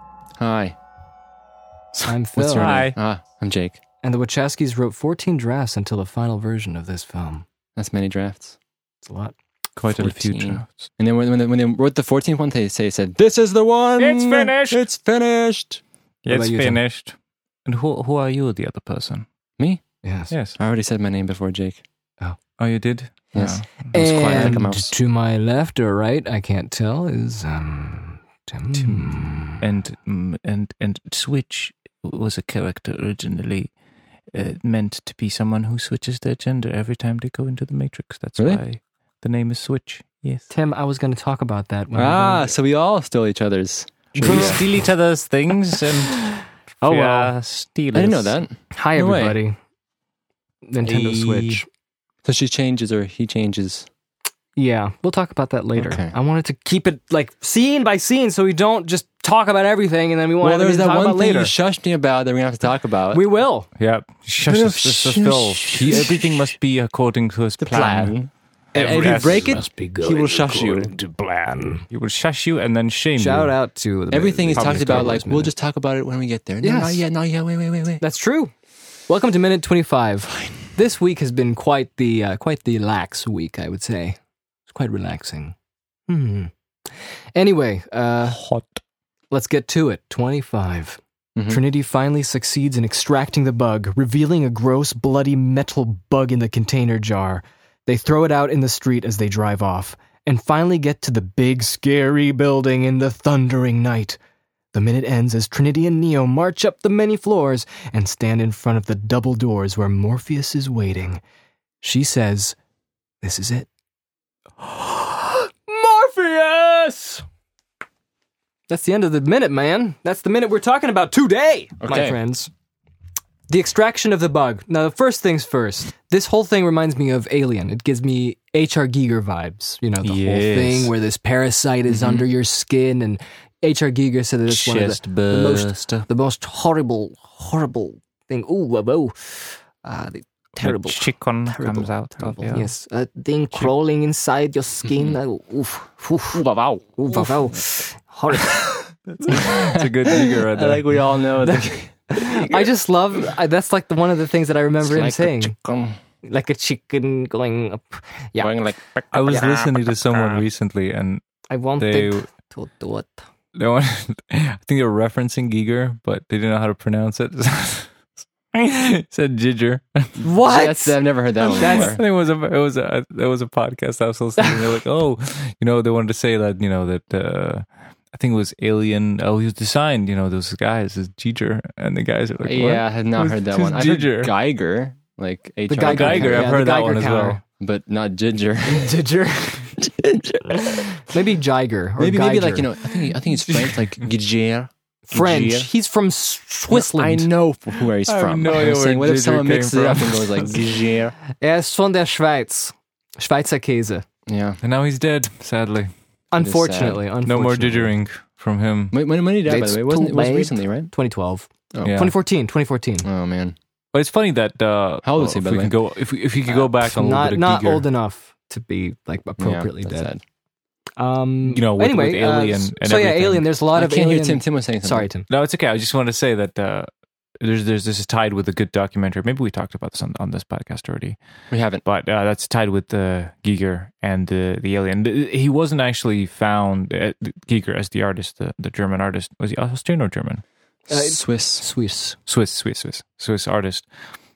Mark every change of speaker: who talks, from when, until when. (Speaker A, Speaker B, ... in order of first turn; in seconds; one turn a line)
Speaker A: 0.4-0.7
Speaker B: 2.0-3.0
Speaker C: 2.0-2.9
Speaker A: 2.4-3.8
Speaker C: 4.0-7.4
Speaker A: 7.8-8.5
Speaker C: 9.0-9.3
Speaker A: 9.8-15.8
Speaker B: 9.8-10.9
Speaker B: 14.0-14.8
Speaker B: 16.2-19.2
Speaker C: 16.3-16.8
Speaker C: 20.0-20.3
Speaker B: 20.3-20.6
Speaker A: 20.6-21.8
Speaker B: 22.6-24.7
Speaker A: 23.3-24.9
Speaker C: 23.9-29.6
Speaker B: 28.7-33.7
Speaker B: 34.3-40.5
Speaker C: 40.5-42.5
Speaker A: 41.9-44.6
Speaker C: 44.1-44.6
Speaker B: 44.2-46.3
Speaker C: 46.8-47.3
Speaker B: 46.8-48.4
Speaker A: 47.9-49.4
Speaker C: 48.7-49.6
Speaker C: 50.6-51.6
Speaker B: 50.8-51.6
Speaker A: 52.2-53.9
Speaker C: 54.5-61.5
Speaker A: 55.8-56.1
Speaker A: 60.4-63.2
Speaker C: 63.1-63.7
Speaker B: 63.8-68.2
Speaker A: 64.4-66.4
Speaker A: 67.6-71.0
Speaker B: 68.7-69.7
Speaker C: 68.7-69.4
Speaker C: 70.1-71.8
Speaker B: 71.9-73.5
Speaker C: 73.2-75.5
Speaker A: 74.1-78.0
Speaker B: 74.5-75.2
Speaker C: 76.6-77.0
Speaker C: 78.0-78.5
Speaker C: 79.1-85.5
Speaker C: 86.1-86.5
Speaker C: 87.3-88.4
Speaker B: 88.3-88.8
Speaker C: 89.3-104.2
Speaker C: 104.7-111.2
Speaker C: 111.8-112.5
Speaker C: 113.2-113.7
Speaker C: 114.6-117.2
Speaker C: 118.7-122.5
Speaker A: 121.8-122.2
Speaker C: 123.5-146.4
Speaker B: 130.0-130.9
Speaker A: 131.9-132.2
Speaker B: 134.5-136.1
Speaker B: 140.6-142.7
Speaker A: 146.3-147.3
Speaker C: 147.0-148.8
Speaker B: 149.2-150.8
Speaker A: 149.3-152.7
Speaker C: 151.4-155.5
Speaker A: 154.8-156.0
Speaker C: 156.2-158.5
Speaker A: 158.4-159.8
Speaker B: 159.1-161.2
Speaker C: 161.5-163.2
Speaker B: 161.8-162.2
Speaker B: 163.5-167.9
Speaker B: 168.5-170.2
Speaker C: 170.2-171.0
Speaker A: 170.4-172.0
Speaker B: 171.4-184.3
Speaker C: 171.6-172.0
Speaker A: 182.4-186.6
Speaker C: 185.7-187.4
Speaker B: 185.8-187.4
Speaker A: 187.6-189.0
Speaker C: 188.6-189.8
Speaker A: 189.8-190.7
Speaker C: 190.5-192.7
Speaker A: 192.0-195.7
Speaker C: 195.1-197.3
Speaker A: 196.7-201.1
Speaker B: 198.1-200.7
Speaker C: 201.4-204.1
Speaker A: 204.3-204.6
Speaker B: 204.6-205.9
Speaker C: 206.3-207.9
Speaker A: 206.4-207.0
Speaker B: 207.2-208.9
Speaker A: 208.9-210.9
Speaker C: 209.4-213.1
Speaker A: 211.7-212.0
Speaker B: 211.8-212.1
Speaker A: 213.0-213.6
Speaker B: 213.9-217.8
Speaker A: 215.0-215.8
Speaker C: 216.8-220.1
Speaker A: 219.4-220.2
Speaker C: 221.0-225.3
Speaker B: 221.4-223.5
Speaker A: 223.7-225.1
Speaker B: 225.3-231.2
Speaker A: 231.5-231.8
Speaker B: 231.8-240.4
Speaker C: 240.9-242.2
Speaker A: 240.9-241.7
Speaker B: 242.3-243.9